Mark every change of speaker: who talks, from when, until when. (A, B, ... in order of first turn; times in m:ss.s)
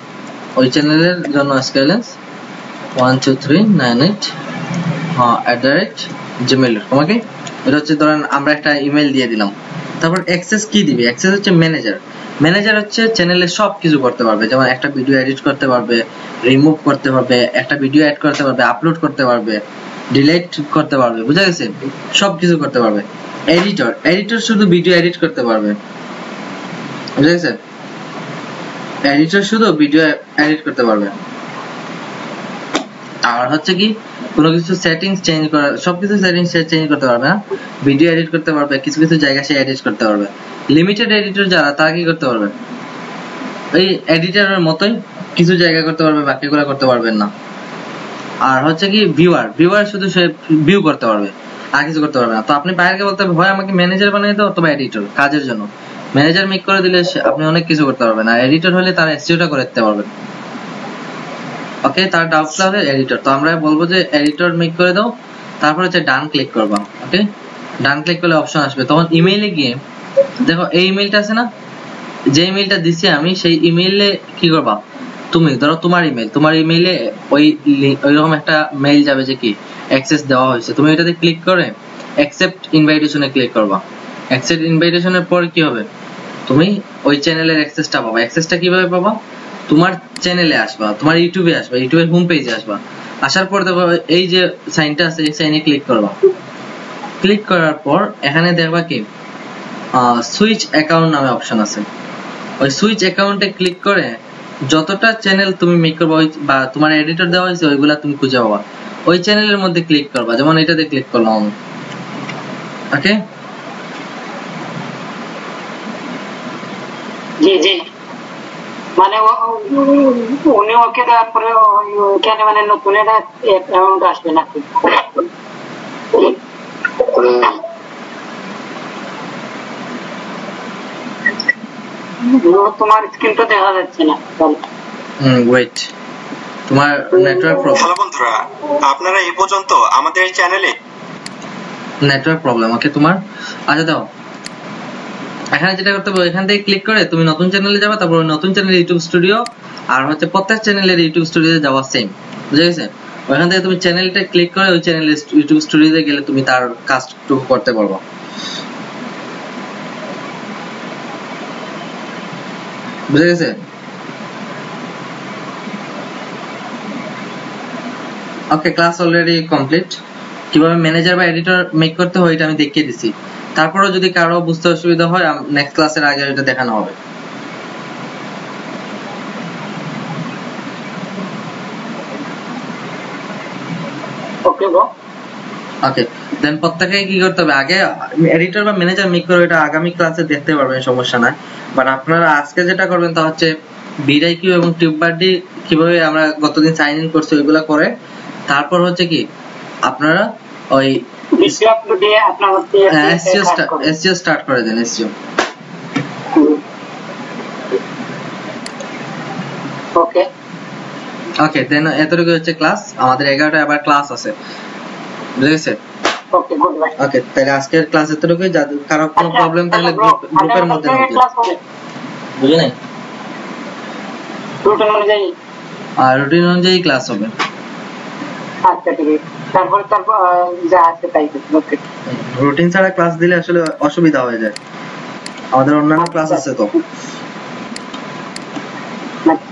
0:00.6-0:02.2 A
0:03.0-0:04.3 A
0:05.2-0:25.8 A
0:27.2-0:27.6 A
0:29.1-0:31.2 A
0:33.2-0:42.6 A
0:43.7-0:47.3 A
0:48.4-1:00.1 A
1:01.8-1:07.2 A
1:07.8-1:09.8 A
1:10.4-1:11.5 A
1:12.3-1:25.9 A
1:26.5-1:36.2 A
1:37.2-1:39.1 A
1:39.9-1:41.9 A
1:42.6-1:51.5 A
1:52.9-1:53.2 A
1:57.4-1:57.8 B
1:59.0-2:05.2 B
2:06.1-2:06.4 B
2:07.2-2:07.5 B
2:12.3-2:14.6 B
2:15.2-2:15.9 A
2:16.7-2:17.9 A
2:17.8-2:20.8 C
2:22.0-2:24.1 A
2:25.5-2:38.0 A
2:43.1-2:43.6 A
2:48.5-2:50.0 A
2:50.5-2:57.0 A
3:04.5-3:04.9 B
3:05.8-3:17.9 A
3:18.5-3:19.2 A
3:19.8-3:21.6 A
3:21.4-3:23.9 B
3:22.9-3:25.1 A
3:26.4-3:26.6 B
3:30.0-3:30.3 B
3:31.4-3:34.4 A
3:35.4-3:35.8 A
3:36.3-3:37.0 B
3:37.0-3:41.2 A
3:39.2-3:41.6 B
3:42.4-3:42.8 A
3:44.6-3:45.3 B
3:46.0-3:47.3 A
3:48.6-3:51.8 B
3:52.1-3:54.6 A
3:55.5-3:56.7 A
3:56.0-3:56.4 B